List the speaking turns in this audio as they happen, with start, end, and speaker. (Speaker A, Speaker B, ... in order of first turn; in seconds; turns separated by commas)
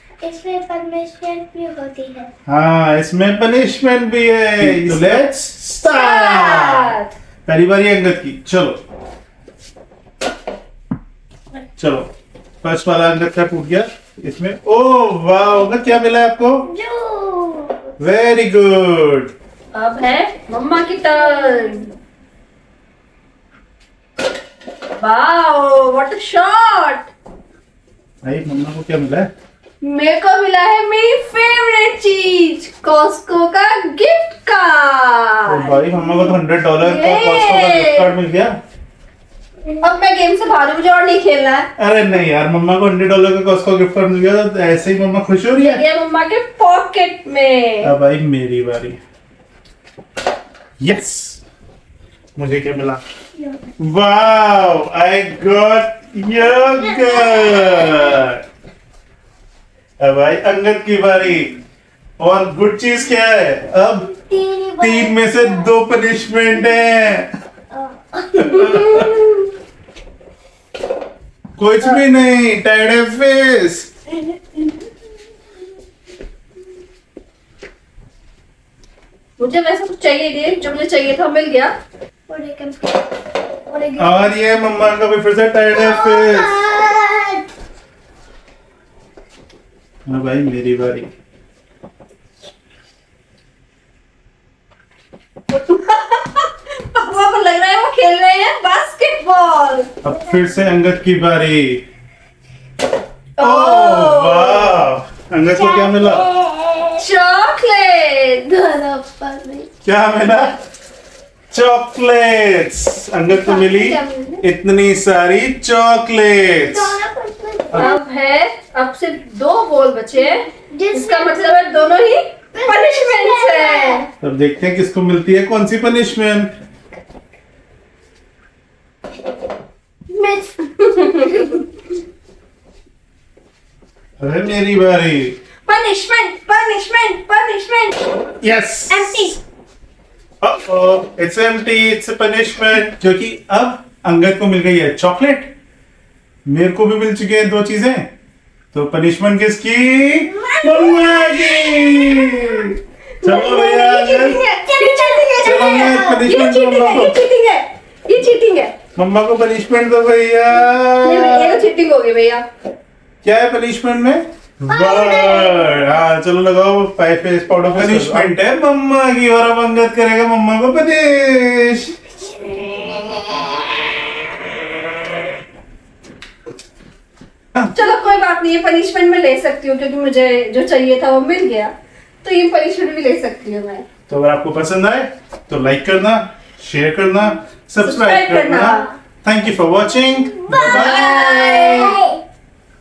Speaker A: 0.2-2.3, Speaker B: 2.5-6.9, Speaker C: 5.9-7.1, Speaker B: 7.5-8.8, Speaker B: 11.8-12.1, Speaker B: 12.6-16.6, Speaker A: 16.6-17.8, Speaker B: 18.0-19.3, Speaker C: 19.7-21.9, Speaker A: 21.2-21.9, Speaker C: 25.0-27.1, Speaker B: 28.2-29.3, Speaker C: 29.8-35.9, Speaker B: 35.5-38.6, Speaker C: 36.8-38.1, Speaker C: 39.8-41.7, Speaker B: 41.8-45.8, Speaker C: 45.6-47.9, Speaker B: 47.8-49.0, Speaker B: 50.8-51.4, Speaker B: 52.4-53.0, Speaker B: 53.8-58.4, Speaker A: 56.5-58.2, Speaker B: 60.0-61.6, Speaker B: 62.2-64.1, Speaker A: 63.9-65.7, Speaker B: 64.8-67.3, Speaker A: 66.5-66.9, Speaker A: 67.7-68.7, Speaker B: 68.4-69.1, Speaker C: 68.5-69.4, Speaker B: 71.6-73.9, Speaker A: 74.1-74.9, Speaker C: 79.4-81.7, Speaker A: 82.3-83.0, Speaker C: 83.7-84.3, Speaker B: 84.0-86.5, Speaker A: 85.8-87.5, Speaker B: 90.1-91.1, Speaker C: 95.5-99.9, Speaker B: 100.0-101.8, Speaker A: 100.1-100.7, Speaker C: 103.4-104.9, Speaker B: 103.4-106.3, Speaker A: 105.5-107.1, Speaker C: 107.0-108.6, Speaker A: 108.6-109.7, Speaker B: 109.8-110.6, Speaker B: 111.5-116.9, Speaker C: 113.3-114.0, Speaker A: 113.7-114.4, Speaker A: 116.5-118.0, Speaker C: 117.7-124.0, Speaker A: 120.2-121.7, Speaker A: 122.5-124.1, Speaker B: 124.2-126.5, Speaker C: 130.2-131.7, Speaker B: 134.2-135.3, Speaker C: 135.7-138.2, Speaker B: 138.4-139.3, Speaker C: 138.9-139.4, Speaker B: 140.4-145.5, Speaker B: 146.5-148.1, Speaker B: 148.7-154.4, Speaker C: 150.4-152.7, Speaker C: 153.2-158.7, Speaker A: 154.6-156.2, Speaker B: 155.4-157.2, Speaker B: 159.0-161.7, Speaker C: 161.0-162.4, Speaker B: 163.2-171.9, Speaker A: 164.7-165.9, Speaker C: 177.7-183.9, Speaker B: 184.1-191.1, Speaker C: 187.8-188.9, Speaker A: 189.9-192.2, Speaker C: 190.5-192.0